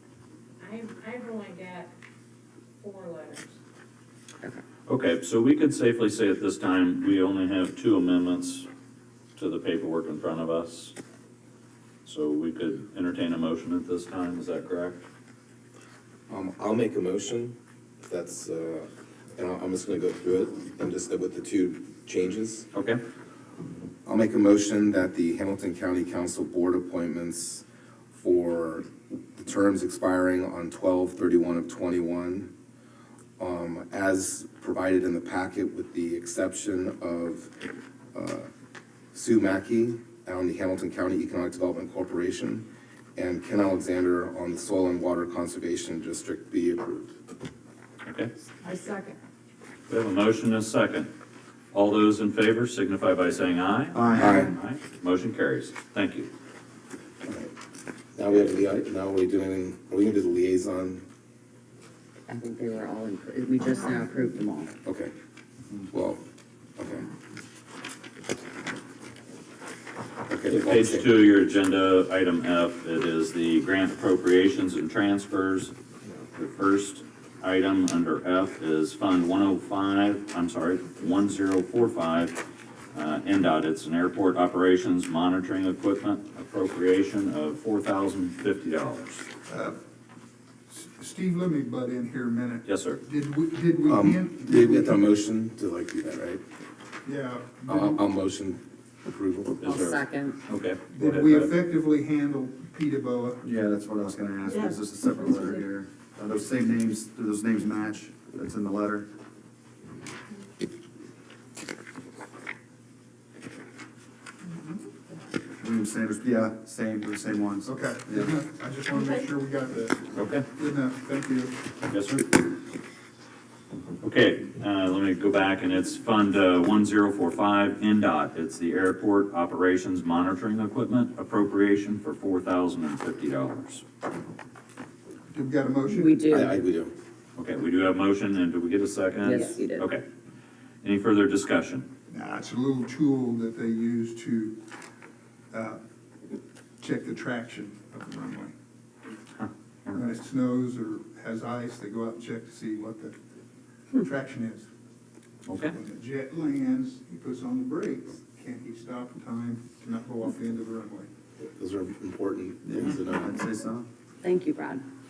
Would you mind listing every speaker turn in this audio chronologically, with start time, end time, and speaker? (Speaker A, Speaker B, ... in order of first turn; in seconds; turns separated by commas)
Speaker A: 0.6-1.9, Speaker A: 2.8-3.5, Speaker B: 4.9-8.7, Speaker B: 9.3-10.9, Speaker B: 12.0-15.0, Speaker C: 16.3-22.6, Speaker B: 22.7-23.0, Speaker C: 24.0-32.5, Speaker C: 33.4-37.5, Speaker C: 38.1-38.5, Speaker C: 39.1-47.1, Speaker B: 48.0-48.3, Speaker A: 48.6-49.1, Speaker B: 49.9-51.1, Speaker B: 51.7-56.3, Speaker D: 53.9-54.3, Speaker C: 54.1-54.5, Speaker C: 58.1-61.0, Speaker E: 62.3-64.7, Speaker C: 64.8-65.1, Speaker C: 65.9-66.2, Speaker C: 66.8-67.0, Speaker C: 70.3-71.1, Speaker B: 70.5-75.7, Speaker B: 76.3-82.4, Speaker B: 82.9-89.3, Speaker F: 89.5-89.8, Speaker F: 90.7-95.1, Speaker B: 92.6-93.0, Speaker C: 93.9-96.4, Speaker F: 97.0-98.0, Speaker C: 97.7-99.6, Speaker B: 99.6-101.5, Speaker E: 99.6-100.4, Speaker F: 100.9-103.4, Speaker D: 103.4-109.0, Speaker D: 115.6-118.3, Speaker F: 117.6-121.6, Speaker B: 120.1-120.5, Speaker B: 121.9-122.3, Speaker B: 124.0-133.8, Speaker F: 135.3-136.3, Speaker E: 135.9-136.5, Speaker C: 136.3-136.9, Speaker B: 137.3-140.0, Speaker E: 139.2-139.9, Speaker B: 140.8-141.9, Speaker F: 142.1-144.6, Speaker F: 145.5-145.8, Speaker F: 146.8-148.5, Speaker B: 149.3-149.9, Speaker F: 149.9-153.2, Speaker F: 153.9-154.7, Speaker B: 155.4-155.8, Speaker F: 155.5-161.1, Speaker C: 161.4-163.4, Speaker D: 162.6-163.8, Speaker E: 164.2-164.8